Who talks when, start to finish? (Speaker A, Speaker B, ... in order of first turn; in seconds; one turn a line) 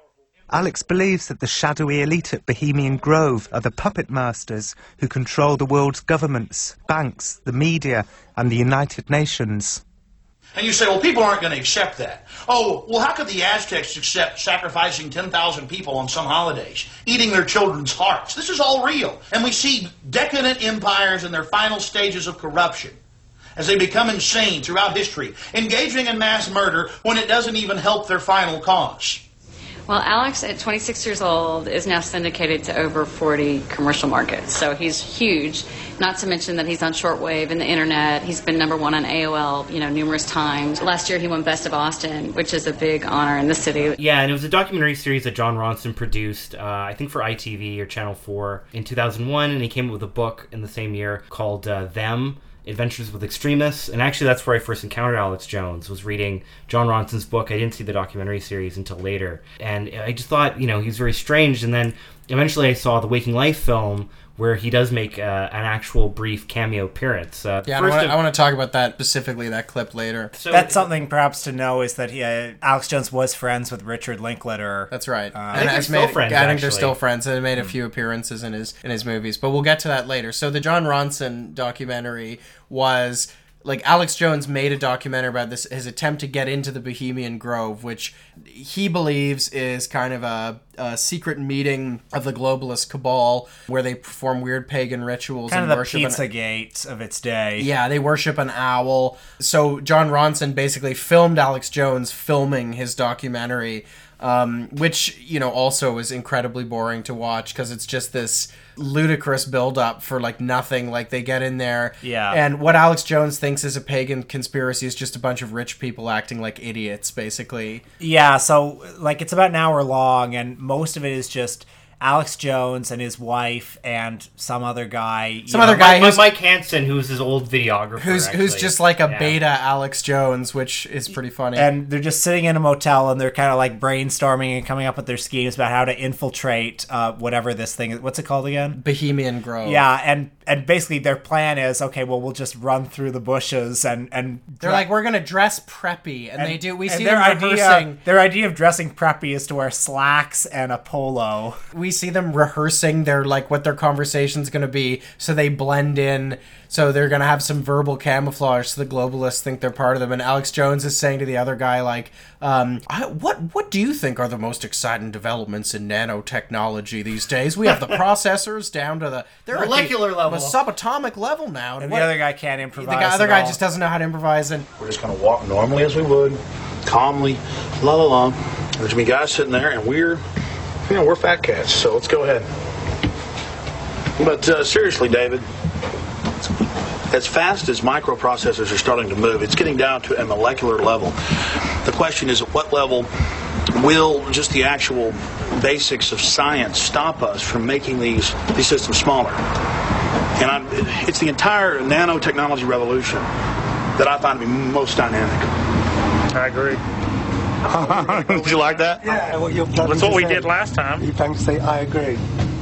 Speaker A: 0.5-9.8
Speaker B: 10.6-23.0
Speaker B: 23.6-29.2
Speaker C: 29.9-44.0
Speaker D: 44.0-68.2
Speaker E: 67.7-70.3
Speaker D: 70.3-70.9
Speaker F: 70.5-75.8
Speaker E: 74.9-96.2
Speaker D: 75.5-77.0
Speaker F: 95.5-97.7
Speaker E: 97.6-117.8
Speaker F: 112.0-112.4
Speaker F: 118.0-126.1
Speaker E: 125.5-126.2
Speaker D: 125.6-129.4
Speaker E: 128.0-131.7
Speaker F: 131.6-138.8
Speaker E: 138.8-139.8
Speaker F: 139.6-144.9
Speaker E: 144.6-148.0
Speaker F: 146.4-151.6
Speaker E: 151.7-172.2
Speaker D: 169.5-170.6
Speaker F: 171.8-173.6
Speaker E: 172.8-174.7
Speaker B: 174.8-180.2
Speaker B: 180.9-182.5
Speaker B: 184.2-185.5
Speaker B: 187.1-191.2
Speaker B: 191.8-193.1
Speaker B: 193.7-199.4
Speaker B: 200.4-203.3
Speaker B: 204.0-205.5
Speaker G: 206.3-206.8
Speaker G: 207.7-211.1
Speaker H: 207.8-212.2
Speaker B: 207.9-208.8